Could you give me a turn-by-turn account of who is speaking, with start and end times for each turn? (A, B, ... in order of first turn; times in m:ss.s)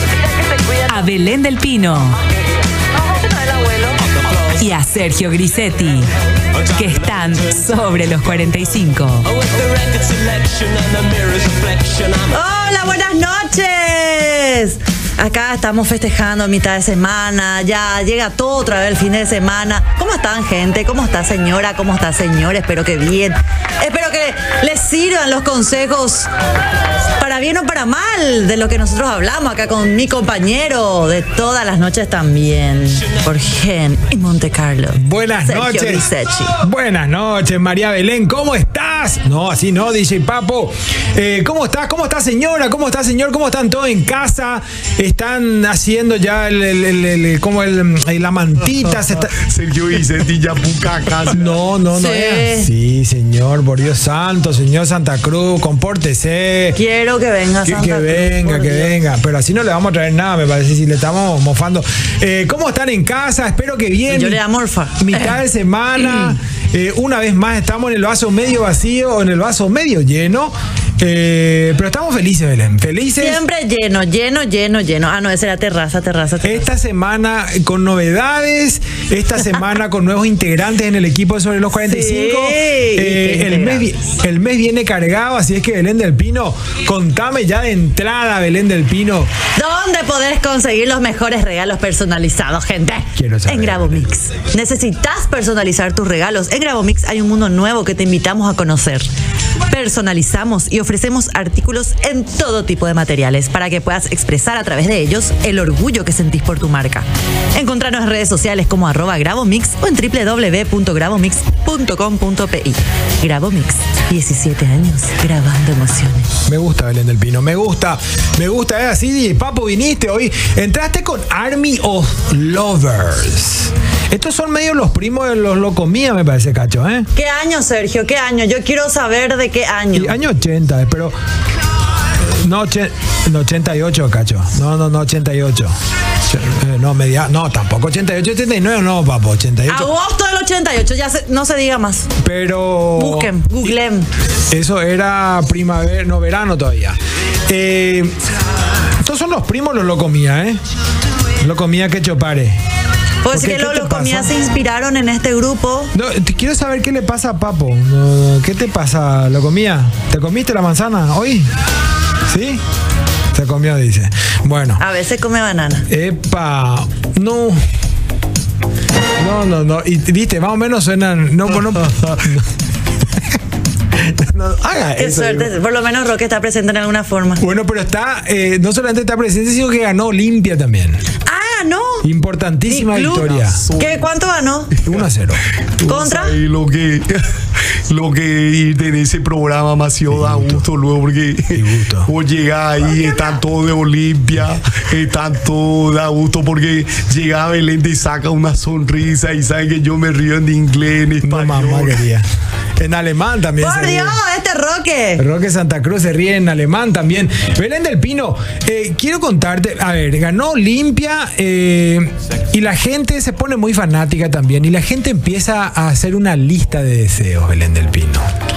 0:00.8-0:02.2 A
0:04.5-0:06.1 A
0:06.7-0:09.9 A
0:12.2-0:26.3 B
0:27.2-0:36.6 B
0:34.9-0:36.1 C
0:36.6-0:49.4 C
0:49.3-0:51.4 D
0:51.3-0:56.8 C
0:51.9-0:52.7 B
0:56.8-0:59.0 B
0:57.6-1:04.4 C
1:04.1-1:05.4 B
1:05.0-1:13.4 C
1:13.2-1:16.7 B
1:16.4-1:29.3 C
1:21.8-1:23.9 B
1:29.5-1:39.1 B
1:33.2-1:34.1 C
1:39.7-1:56.3 B
1:56.4-2:07.1 C
2:07.1-2:10.2 B
2:09.9-2:11.2 C
2:12.2-2:19.9 C
2:19.7-2:22.1 B
2:22.2-2:23.8 C
2:23.0-2:24.1 B
2:24.5-2:28.1 C
2:29.0-2:30.6 C
2:31.4-2:32.6 C
2:33.2-2:35.9 B
2:33.3-2:34.3 C
2:35.9-2:41.5 C
2:42.3-2:42.6 C
2:43.3-2:44.8 C
2:44.8-2:45.9 B
2:45.9-2:47.6 C
2:49.2-2:52.5 C
2:54.0-2:55.5 C
2:55.0-2:57.4 B
2:57.4-3:01.0 C
3:01.2-3:02.0 B
3:02.0-3:03.6 C
3:02.6-3:04.7 B
3:03.4-3:04.0 D
3:04.8-3:05.4 C
3:05.8-3:07.3 D
3:05.8-3:06.4 B
3:07.9-3:22.0 D
3:10.1-3:10.7 C
3:11.5-3:12.1 C
3:21.2-3:22.3 C
3:22.8-3:24.2 C
3:23.6-3:25.2 B
3:25.2-3:38.2 C